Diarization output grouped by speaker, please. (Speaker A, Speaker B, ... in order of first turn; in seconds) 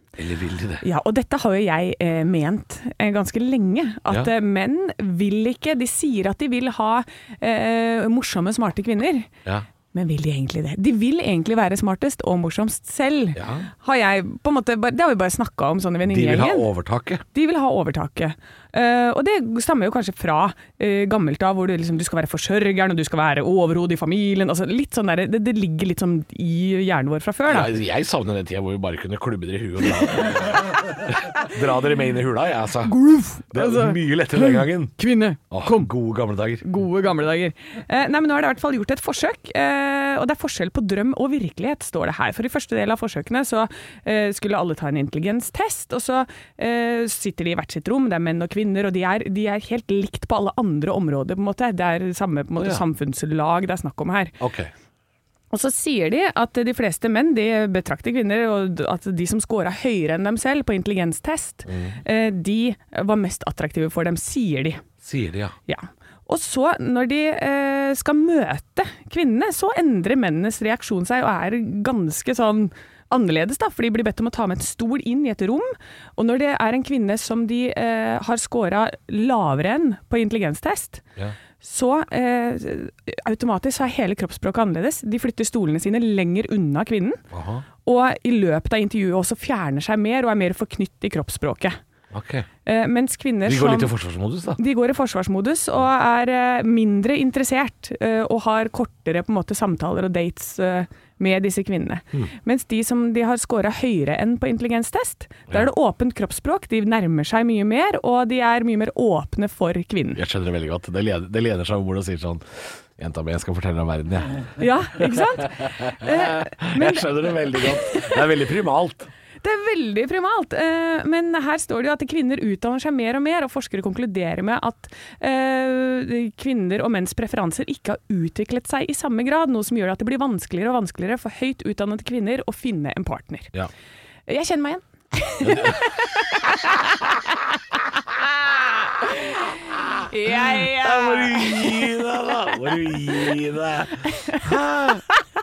Speaker A: 0.2-0.8, 13.3-13.7, 16.1-17.2, 27.5-33.0, 33.5-35.0, 35.5-36.6, 52.6-52.8, 54.4-54.7, 61.7-62.0, 65.0-65.5, 87.3-87.6, 92.1-92.5, 93.5-94.6, 110.1-119.1, 135.4-137.0, 138.4-145.0
Speaker B: 0.8-9.3, 9.9-16.7, 17.3-27.7, 32.9-35.9, 36.6-54.3, 55.5-64.8, 65.7-81.0, 81.6-87.2, 87.8-91.8, 92.6-93.9, 94.6-110.2, 114.6-118.2, 119.4-133.5, 134.3-136.8, 139.0-141.8